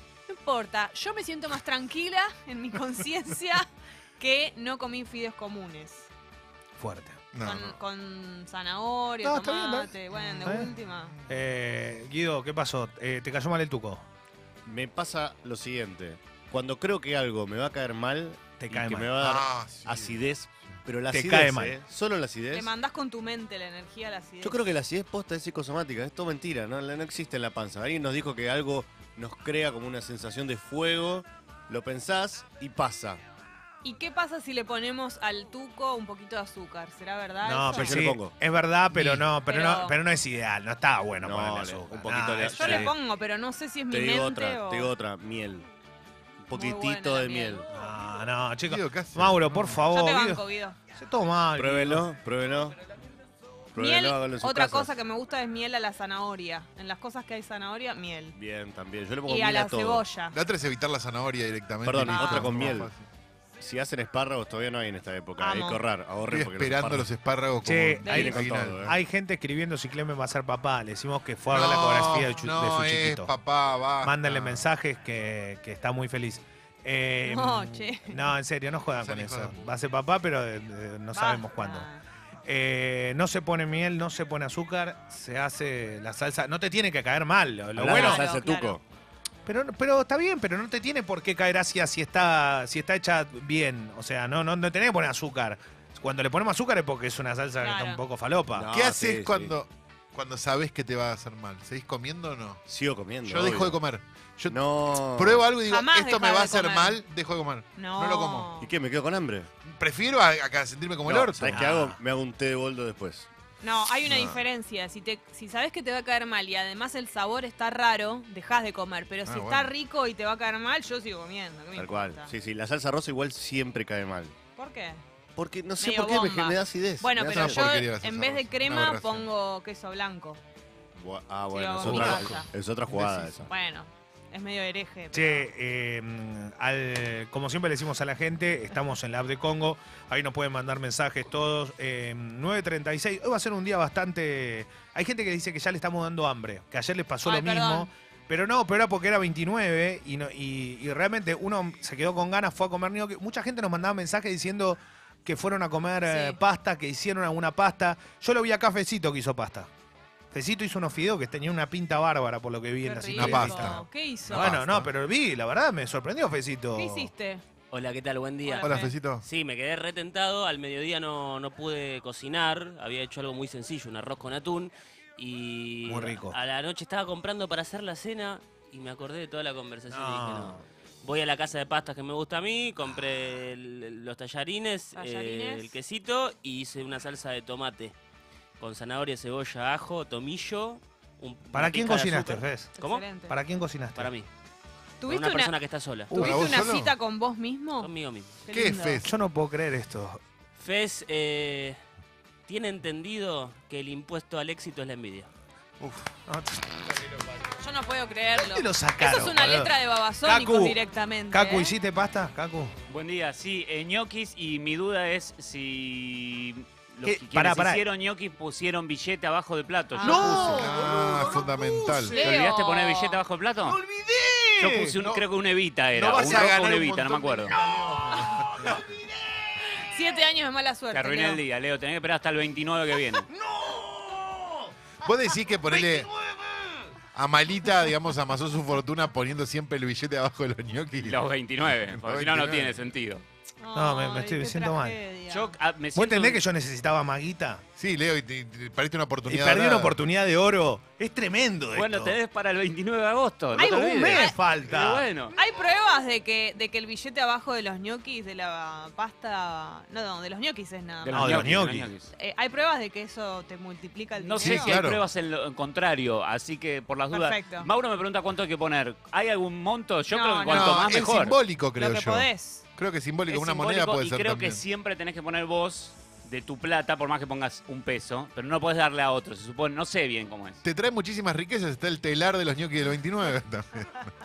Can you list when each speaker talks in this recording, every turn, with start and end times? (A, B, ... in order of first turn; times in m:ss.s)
0:00.3-0:03.7 A
0:04.2-0:06.1 A
0:06.8-0:07.2 B
0:07.3-0:07.8 C
0:07.4-0:11.1 A
0:09.2-0:10.7 B
0:10.1-0:10.6 C
0:11.3-0:14.0 B
0:14.6-0:22.7 D
0:18.6-0:19.2 B
0:19.2-0:20.2 C
0:21.1-0:21.8 B
0:22.5-0:24.6 A
0:24.4-0:33.2 D
0:33.8-0:38.0 A
0:37.4-0:42.9 B
0:37.8-0:38.3 D
0:39.4-0:40.0 A
0:41.2-0:42.9 D
0:42.4-0:44.9 A
0:43.9-0:45.7 D
0:46.4-0:47.7 D
0:46.5-0:47.6 A
0:47.7-0:50.4 B
0:48.7-0:49.8 C
0:49.9-0:50.8 A
0:50.9-0:52.0 B
0:51.6-0:52.8 D
0:53.7-0:54.9 D
0:53.8-0:58.4 A
0:58.3-1:00.0 D
0:59.3-1:00.3 A
1:00.3-1:03.0 C
1:01.8-1:02.9 D
1:02.0-1:02.8 A
1:03.6-1:07.1 D
1:05.4-1:05.8 A
1:06.3-1:08.9 C
1:07.6-1:13.3 B
1:08.0-1:08.3 A
1:08.0-1:08.9 D
1:11.5-1:14.6 C
1:14.0-1:21.9 B
1:17.2-1:18.1 A
1:19.0-1:19.6 C
1:21.1-1:22.0 A
1:22.4-1:28.2 B
1:27.7-1:28.8 D
1:27.8-1:28.8 A
1:29.4-1:38.7 B
1:37.6-1:38.0 A
1:38.5-1:39.5 D
1:38.7-1:42.6 C
1:42.7-1:43.8 D
1:43.2-1:48.5 C
1:44.5-1:45.5 D
1:45.6-1:47.0 A
1:47.8-1:48.7 A
1:48.6-1:49.5 D
1:49.6-1:51.7 C
1:51.0-1:52.0 B
1:51.1-1:53.3 D
1:53.6-2:02.3 A
1:54.0-1:54.4 C
1:59.2-1:59.7 C
2:01.7-2:04.3 D
2:04.6-2:05.0 A
2:05.4-2:07.8 D
2:05.8-2:10.4 A
2:07.3-2:09.3 C
2:11.0-2:13.5 D
2:11.5-2:12.5 A
2:11.8-2:12.4 B
2:12.9-2:13.3 C
2:13.5-2:15.5 A
2:15.1-2:39.7 B
2:27.2-2:27.9 A
2:36.0-2:36.4 A
2:40.3-2:47.1 B
2:42.8-2:44.6 A
2:43.1-2:44.9 C
2:46.7-2:47.4 A
2:47.7-3:08.0 E
2:48.4-2:48.9 A
2:48.6-2:49.2 C
2:55.8-2:56.4 B
2:59.9-3:00.6 B
3:04.9-3:05.7 A
3:08.6-3:13.1 E
3:11.5-3:14.1 B
3:12.8-3:13.3 A
3:14.0-3:14.3 E
3:15.0-3:15.6 A
3:15.0-3:16.1 E
3:16.1-3:17.9 A
3:16.1-3:16.6 B
3:16.1-3:16.9 C
3:17.8-3:18.4 E
3:18.4-3:19.1 A
3:18.5-3:19.1 C
3:19.0-3:20.2 B
3:20.6-3:21.8 E
3:22.5-3:25.3 E
3:25.8-3:26.1 C
3:26.3-3:27.4 B
3:27.6-3:31.7 A
3:28.3-3:30.8 B
3:31.3-3:32.7 B
3:32.9-3:40.7 F
3:37.0-3:37.8 B
3:39.9-3:40.6 A
3:40.0-3:42.2 B
3:40.4-3:42.2 C
3:42.1-3:43.2 A
3:42.1-3:43.8 F
3:43.6-3:45.0 B
3:44.6-3:47.6 F
3:45.0-3:45.2 C
3:45.9-3:48.8 C
3:47.5-3:49.6 B
3:49.6-3:51.4 A
3:50.9-3:53.3 F
3:53.2-3:56.9 B
3:55.0-3:56.1 C
3:57.1-4:01.2 C
4:01.0-4:03.2 F
4:01.9-4:02.8 C
4:03.6-4:05.5 A
4:03.7-4:05.0 B
4:05.3-4:06.4 F
4:05.9-4:07.6 B
4:07.8-4:09.9 C
4:09.2-4:12.2 B
4:11.7-4:15.3 F
4:13.5-4:15.1 B
4:13.6-4:14.4 A
4:15.3-4:21.5 A
4:21.0-4:22.1 F
4:21.1-4:21.9 B
4:22.1-4:24.8 A
4:24.2-4:31.4 F
4:24.4-4:25.0 C
4:27.1-4:27.7 A
4:30.1-4:32.6 A
4:30.5-4:34.6 C
4:33.3-4:40.6 F
4:40.6-4:44.1 C